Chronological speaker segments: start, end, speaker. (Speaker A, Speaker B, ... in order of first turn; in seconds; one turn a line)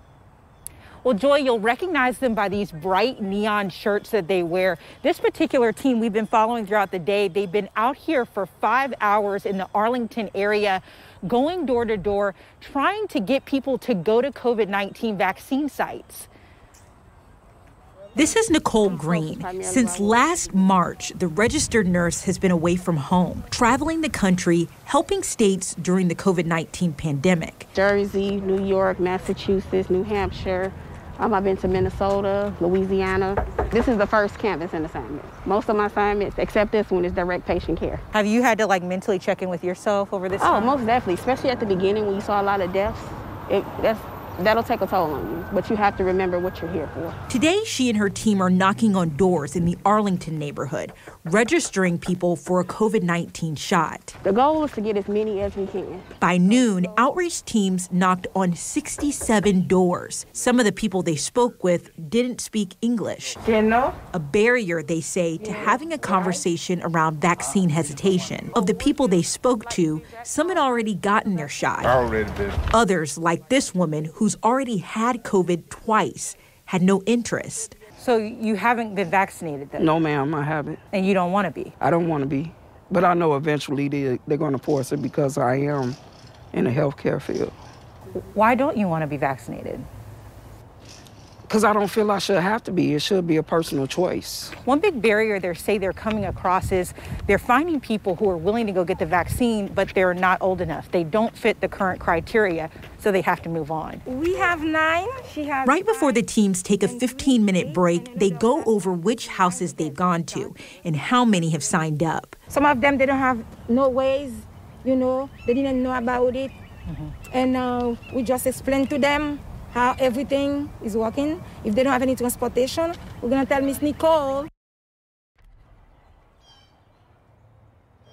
Speaker A: 1.0-16.3
Speaker B: 9.3-10.4
Speaker B: 18.1-27.7
Speaker C: 18.8-20.8
Speaker C: 27.7-38.0
Speaker A: 38.2-40.8
Speaker C: 40.4-47.2
Speaker B: 47.3-54.1
Speaker C: 54.2-56.1
Speaker B: 56.2-63.4
Speaker D: 63.4-64.0
Speaker B: 64.1-72.1
Speaker D: 65.4-65.7
Speaker B: 72.7-77.8
Speaker A: 78.0-79.9
Speaker E: 79.8-80.8
Speaker A: 80.9-81.7
Speaker E: 81.8-86.0
Speaker E: 86.5-87.5
Speaker A: 88.3-89.9
Speaker E: 91.5-94.5
Speaker A: 94.5-104.0
Speaker D: 104.0-106.2
Speaker B: 105.7-112.3
Speaker D: 106.8-110.5
Speaker D: 112.5-116.5
Speaker A: 116.9-117.2
Speaker D: 117.3-124.5